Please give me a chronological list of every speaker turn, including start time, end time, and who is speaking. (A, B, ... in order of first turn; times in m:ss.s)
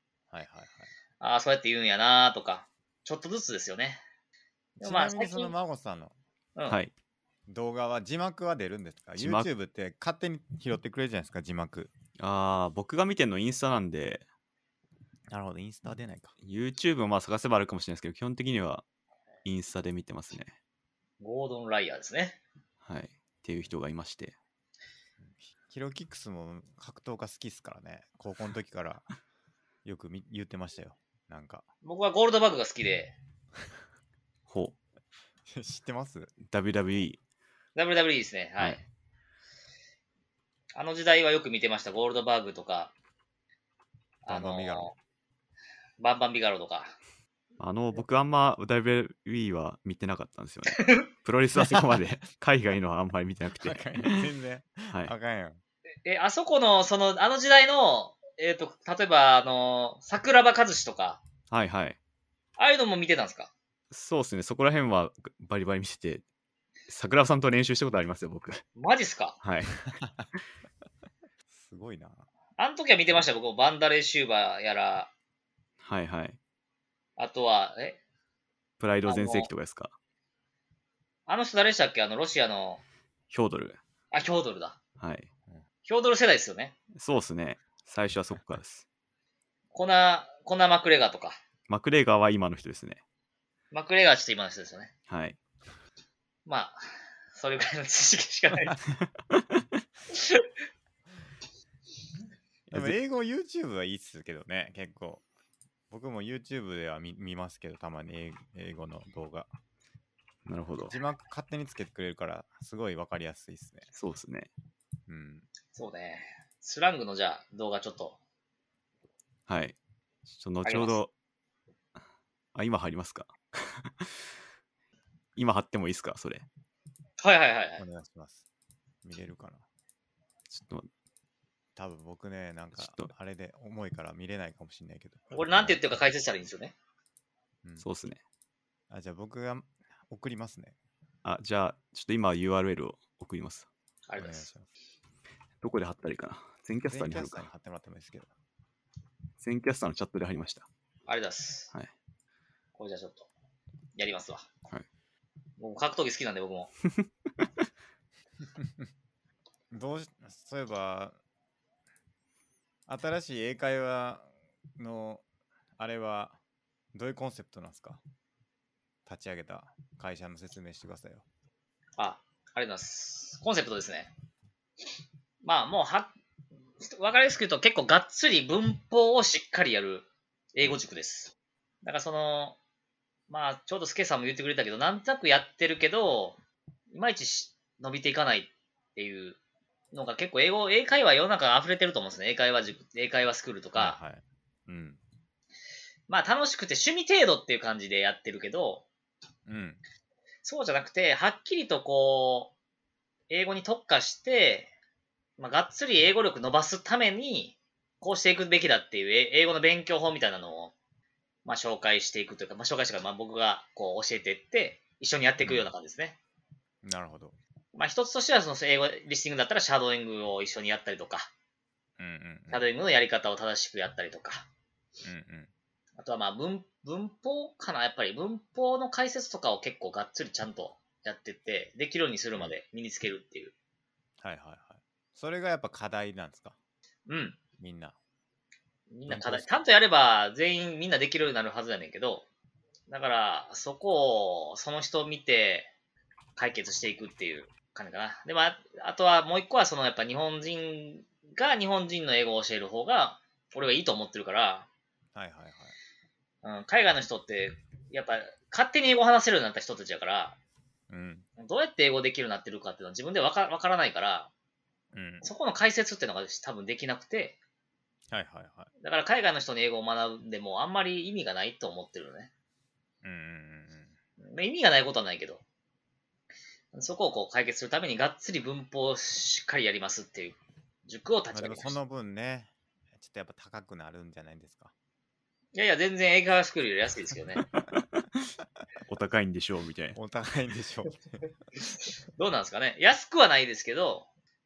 0:00.3-0:00.9 A
0:01.2-0:04.0 B
0:04.8-0:06.2 A
0:04.8-0:05.5 B
0:07.5-0:11.9 A
0:09.2-0:09.5 C
0:12.2-0:14.2 C
0:15.3-0:16.3 A
0:16.4-0:18.8 C
0:19.4-0:20.6 C
0:21.2-0:22.4 B
0:22.8-0:24.4 C
0:25.4-0:29.0 A
0:29.8-0:31.6 A
0:31.8-0:33.2 B
0:34.5-0:34.8 C
0:35.5-0:36.3 A
0:36.4-0:37.2 C
0:37.8-0:38.8 B
0:40.7-0:42.9 B
0:44.2-0:44.9 B
0:44.3-0:44.9 A
0:46.0-0:47.0 B
0:47.6-0:54.2 C
0:50.7-0:51.0 B
0:51.6-0:51.9 A
0:53.6-0:55.6 A
0:56.0-1:01.2 B
1:01.5-1:02.0 C
1:02.6-1:03.5 B
1:03.9-1:06.2 C
1:06.9-1:08.6 C
1:08.8-1:09.4 B
1:09.4-1:09.8 C
1:10.0-1:10.3 A
1:11.5-1:12.3 A
1:12.6-1:15.1 B
1:15.8-1:16.4 C
1:17.2-1:18.0 B
1:18.8-1:19.9 C
1:19.1-1:19.5 B
1:21.3-1:22.8 B
1:23.3-1:23.8 C
1:24.1-1:24.8 B
1:25.0-1:25.3 C
1:25.8-1:26.8 B
1:27.0-1:28.8 C
1:29.7-1:31.4 B
1:31.7-1:33.0 C
1:33.7-1:34.9 B
1:35.1-1:35.4 C
1:36.5-1:36.8 B
1:37.3-1:38.8 B
1:39.3-1:39.7 C
1:40.1-1:40.4 B
1:42.7-1:43.0 C
1:42.7-1:45.2 A
1:45.9-1:49.5 A
1:50.5-1:51.0 C
1:50.9-1:53.9 A
1:53.9-1:54.5 C
1:55.1-1:55.5 A
1:55.8-1:58.2 B
1:59.5-2:01.1 C
2:00.6-2:01.0 B
2:02.5-2:04.2 C
2:05.4-2:06.5 C
2:07.2-2:07.8 B
2:07.8-2:08.4 A
2:09.0-2:09.6 A
2:10.5-2:10.9 C
2:11.8-2:16.0 A
2:12.8-2:13.1 C
2:15.3-2:16.7 B
2:17.8-2:18.2 C
2:18.9-2:20.8 A
2:21.2-2:23.7 C
2:24.1-2:24.5 B
2:24.2-2:24.7 A
2:25.6-2:27.5 C
2:26.8-2:28.3 A
2:29.4-2:30.7 C
2:31.1-2:31.7 B
2:32.8-2:33.3 B
2:34.0-2:34.5 B
2:35.6-2:36.7 B
2:36.8-2:37.5 C
2:39.7-2:41.2 A
2:42.9-2:45.2 A
2:45.8-2:46.4 A
2:46.9-2:48.0 A
2:49.1-2:51.2 A
2:52.0-2:54.1 B
2:55.4-2:56.1 B
2:56.8-3:02.6 B
3:03.3-3:06.4 B
3:06.9-3:09.4 B
3:09.9-3:14.0 B
3:13.8-3:15.0 A
3:16.1-3:18.9 B
3:19.5-3:19.8 A
3:20.4-3:22.5 B
3:23.3-3:24.7 B
3:25.4-3:30.7 B
3:31.4-3:36.2 B
3:35.4-3:35.7 A
3:36.8-3:37.4 A
3:37.7-3:41.3 B
3:42.0-3:42.6 A
3:42.5-3:44.5 B
3:45.0-3:45.5 A
3:46.0-3:53.5 B
3:54.2-3:56.6 A
3:57.1-3:57.4 B
3:57.6-3:58.0 A
3:58.9-4:02.3 B
3:59.1-3:59.6 A
4:02.9-4:05.7 B
4:06.4-4:14.7 B
4:15.2-4:15.8 A
4:16.4-4:20.4 B
4:20.9-4:21.3 A
4:21.4-4:24.3 B
4:24.9-4:25.3 A
4:25.2-4:27.4 B
4:28.1-4:28.7 A
4:28.8-4:32.3 B
4:33.0-4:33.9 A
4:34.2-4:35.4 B
4:36.7-4:41.8 B
4:41.3-4:44.7 A
4:45.6-4:47.5 B
4:47.6-4:48.0 C
4:48.9-4:50.0 C
4:50.0-4:51.2 A
4:52.2-4:54.1 B